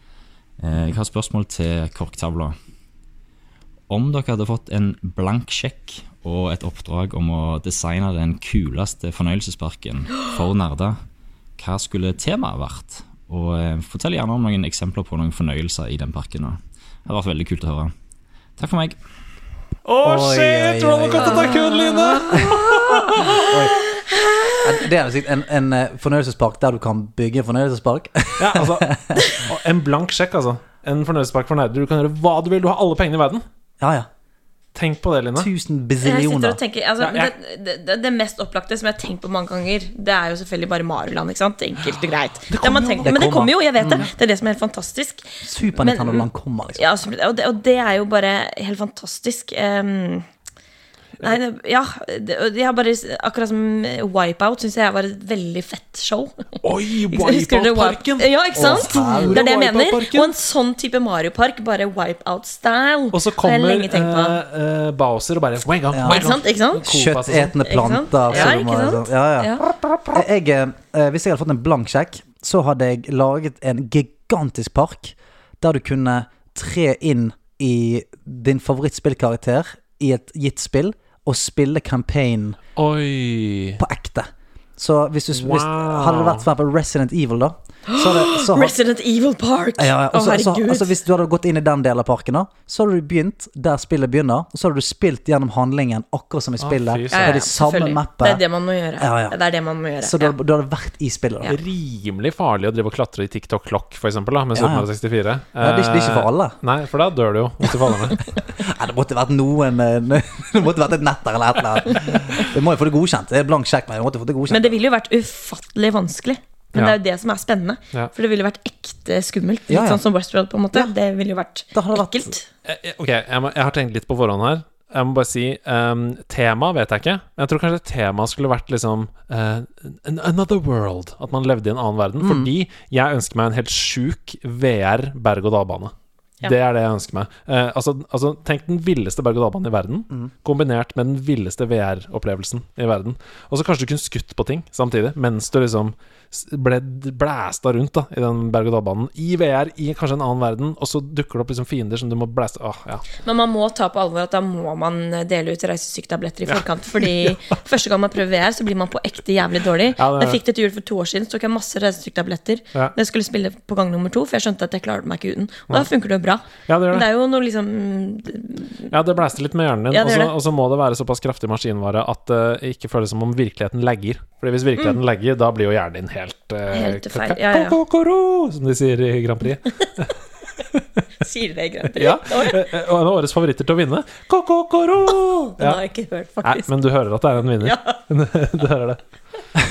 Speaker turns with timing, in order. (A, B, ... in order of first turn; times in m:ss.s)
0:00.6-0:02.5 A
0:03.9-0:11.0 A
0:11.6-0:17.9 A
0:18.6-0:19.0 A
0:19.8-0:23.6 B
0:20.0-0:21.6 C
0:21.4-0:23.3 D
0:22.3-0:22.6 C
0:23.3-0:23.7 C
0:24.1-0:24.5 D
0:24.6-0:29.2 C
0:28.4-0:33.4 B
0:33.8-0:34.1 C
0:34.7-0:35.5 B
0:35.3-0:36.6 C
0:36.0-0:50.2 D
0:37.0-0:37.3 B
0:42.5-0:43.3 B
0:43.0-0:44.1 C
0:45.4-0:46.8 C
0:51.2-1:04.4 D
0:56.6-1:00.3 B
0:58.6-0:59.5 C
1:03.1-1:07.6 B
1:05.9-1:06.3 C
1:06.0-1:06.8 D
1:06.8-1:09.6 C
1:07.6-1:09.6 D
1:08.3-1:08.6 B
1:10.1-1:22.6 C
1:22.8-1:23.8 B
1:23.8-1:28.7 C
1:25.3-1:26.4 B
1:27.9-1:30.9 D
1:29.8-1:38.4 C
1:36.6-1:37.4 B
1:37.1-1:40.3 D
1:39.0-1:39.4 C
1:40.0-1:41.6 C
1:41.4-1:48.3 B
1:44.5-1:44.9 C
1:45.6-1:46.6 C
1:48.5-1:54.7 C
1:54.5-2:02.4 D
1:59.7-2:00.0 C
2:01.7-2:02.3 C
2:02.6-2:33.0 B
2:12.2-2:12.5 C
2:33.2-2:48.9 D
2:36.5-2:37.4 B
2:40.0-2:40.4 B
2:46.6-2:47.1 B
2:48.9-3:00.1 B
2:49.9-2:50.3 D
2:56.7-2:57.8 D
3:00.7-3:01.0 B
3:01.2-3:02.6 D
3:01.9-3:05.8 B
3:05.4-3:06.7 D
3:06.4-3:09.0 B
3:07.6-3:08.0 D